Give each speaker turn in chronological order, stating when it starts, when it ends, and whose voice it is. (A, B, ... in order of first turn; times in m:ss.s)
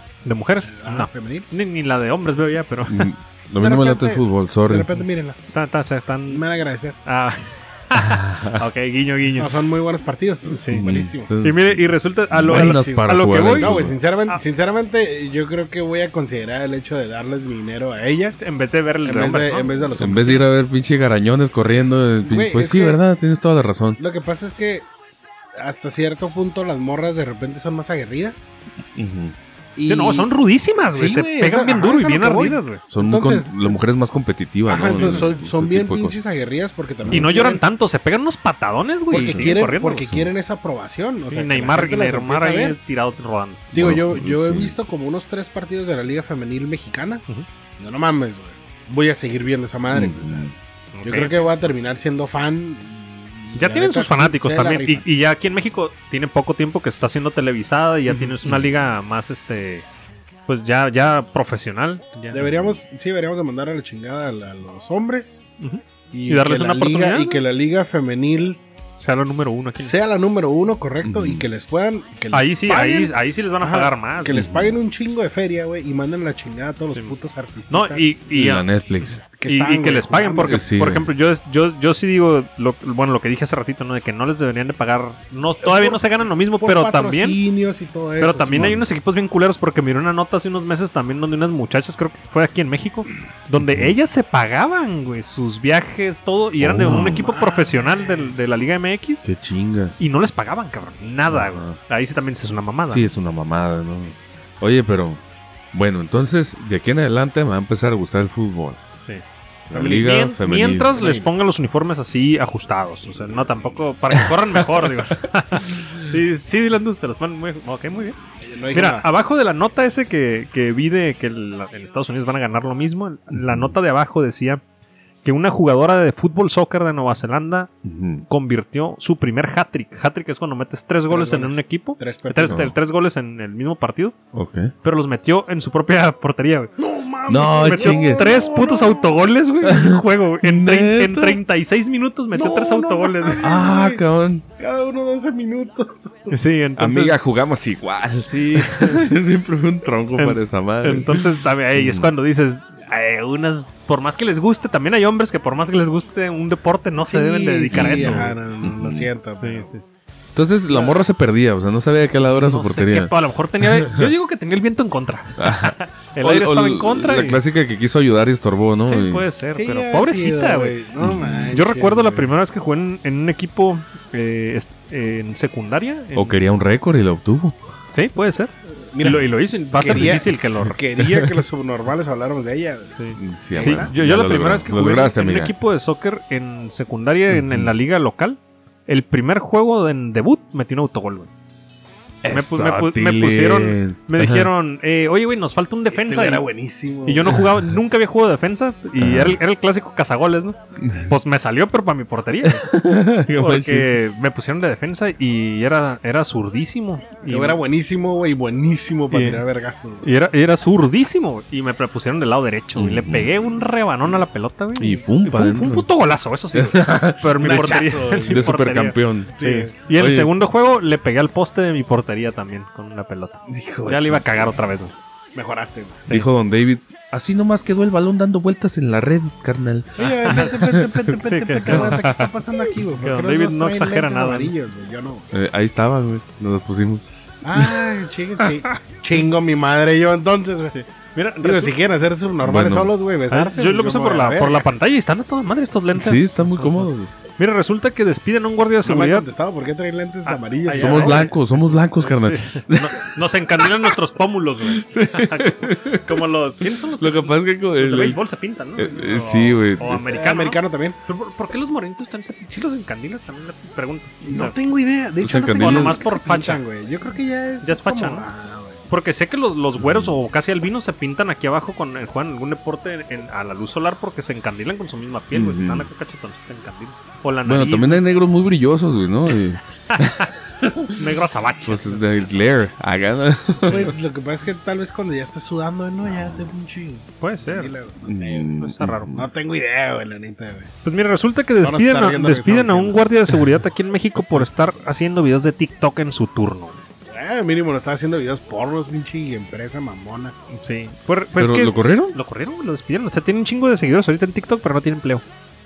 0:00.2-0:03.1 A
0:00.6-0:01.5 B
0:02.9-0:04.9 C
0:03.6-0:05.4 B
0:05.5-0:06.4 A
0:06.3-0:07.0 B
0:07.0-0:09.6 A
0:08.0-0:08.6 C
0:09.4-0:11.3 B
0:10.5-0:10.9 A
0:10.7-0:14.0 C
0:11.4-0:13.8 A
0:12.5-0:18.4 B
0:18.4-0:19.9 A
0:19.0-0:20.5 B
0:20.0-0:24.0 C
0:22.2-0:23.0 B
0:24.0-0:24.9 B
0:25.6-0:28.5 B
0:29.0-0:29.4 C
0:29.8-0:33.8 B
0:29.9-0:32.8 A
0:32.9-0:36.2 C
0:34.7-0:37.6 B
0:34.9-0:35.3 A
0:37.0-0:37.3 C
0:37.1-0:40.0 A
0:39.1-0:40.3 C
0:39.1-0:42.8 B
0:41.3-0:43.6 A
0:43.7-0:44.8 C
0:43.7-0:47.2 B
0:47.8-0:50.5 B
0:49.9-0:50.5 C
0:50.9-0:51.4 A
0:51.1-0:55.0 B
0:53.6-0:59.9 A
0:58.4-0:58.7 C
1:00.5-1:02.4 A
1:02.3-1:05.4 B
1:02.5-1:02.8 C
1:05.6-1:07.4 A
1:06.1-1:08.6 B
1:09.0-1:10.0 A
1:09.8-1:18.2 B
1:11.0-1:11.5 C
1:12.3-1:14.4 A
1:14.3-1:14.8 C
1:17.7-1:18.7 A
1:18.3-1:19.2 C
1:19.3-1:20.6 B
1:19.5-1:27.4 A
1:20.5-1:21.1 C
1:25.6-1:28.8 B
1:28.2-1:39.3 A
1:28.6-1:28.9 C
1:33.6-1:33.9 C
1:36.6-1:37.3 C
1:37.0-1:38.5 B
1:39.2-1:40.0 C
1:40.0-1:43.1 A
1:41.3-1:41.8 C
1:42.9-1:45.2 C
1:45.7-1:48.8 C
1:49.1-1:58.2 A
1:49.7-1:51.0 C
1:51.0-1:51.3 B
1:58.5-1:59.1 B
1:58.7-2:04.6 A
2:03.3-2:03.7 C
2:05.2-2:07.7 A
2:07.8-2:08.3 C
2:08.3-2:14.2 A
2:11.1-2:12.7 B
2:12.5-2:12.7 C
2:14.3-2:14.7 C
2:14.8-2:16.7 A
2:16.8-2:19.3 B
2:17.3-2:18.4 C
2:17.6-2:23.5 A
2:19.6-2:21.4 C
2:22.3-2:24.0 B
2:23.4-2:24.4 C
2:24.6-2:26.4 B
2:26.3-2:27.2 A
2:26.8-2:32.1 C
2:28.2-2:29.1 A
2:30.2-2:38.3 A
2:37.0-2:39.7 B
2:37.7-2:39.1 C
2:39.4-2:39.9 A
2:40.4-2:44.1 C
2:40.7-2:41.0 B
2:42.4-2:47.4 A
2:45.4-2:49.2 C
2:48.9-2:50.8 A
2:49.5-2:52.3 B
2:51.0-2:51.6 C
2:51.5-2:56.4 A
2:56.1-2:57.6 C
2:57.9-3:00.8 A
2:58.9-3:03.0 B
3:00.5-3:01.4 C
3:02.9-3:11.3 A
3:03.2-3:05.5 C
3:03.5-3:03.9 B
3:07.3-3:07.7 C
3:12.2-3:14.5 C
3:12.3-3:16.4 A
3:15.9-3:17.4 B
3:17.1-3:22.7 A
3:19.0-3:19.4 C
3:20.8-3:21.1 C
3:22.4-3:24.0 C
3:23.3-3:27.6 A
3:27.3-3:30.1 B
3:29.1-3:29.4 A
3:30.0-3:44.9 A
3:32.8-3:33.3 C
3:34.8-3:35.9 C
3:36.5-3:37.7 C
3:37.4-3:38.6 B
3:38.3-3:39.3 C
3:39.3-3:39.7 B
3:39.9-3:40.3 C
3:43.5-3:44.6 C
3:45.4-3:46.1 B
3:46.1-3:51.2 C
3:50.0-3:55.3 B
3:50.0-3:50.5 A
3:51.2-3:52.3 A
3:51.7-3:52.0 C
3:53.0-3:54.5 A
3:55.3-3:57.9 C
3:57.4-4:00.7 B
4:00.7-4:01.8 A
4:01.4-4:04.7 B
4:02.4-4:02.9 C
4:03.3-4:09.3 A
4:06.0-4:07.1 C
4:08.8-4:12.0 B
4:10.3-4:24.6 A
4:10.8-4:14.0 C
4:14.6-4:16.2 C
4:16.9-4:18.2 C
4:18.8-4:20.0 C
4:20.1-4:21.0 B
4:24.2-4:28.8 B
4:25.2-4:26.0 C
4:25.5-4:26.6 A
4:27.6-4:28.3 A
4:28.9-4:38.0 A
4:29.8-4:30.1 C
4:35.3-4:35.9 C
4:37.5-4:41.0 C
4:39.9-4:40.3 A
4:40.9-4:42.0 A
4:41.6-4:44.0 C
4:43.6-4:48.5 B
4:43.7-4:43.9 A
4:46.0-4:46.5 C
4:47.2-4:47.7 A
4:48.1-4:49.3 C
4:48.5-4:49.2 A
4:49.1-4:50.7 B
4:50.8-4:56.8 A
4:51.6-4:53.0 B
4:57.1-5:00.4 B
5:00.5-5:05.2 A
5:01.4-5:02.2 C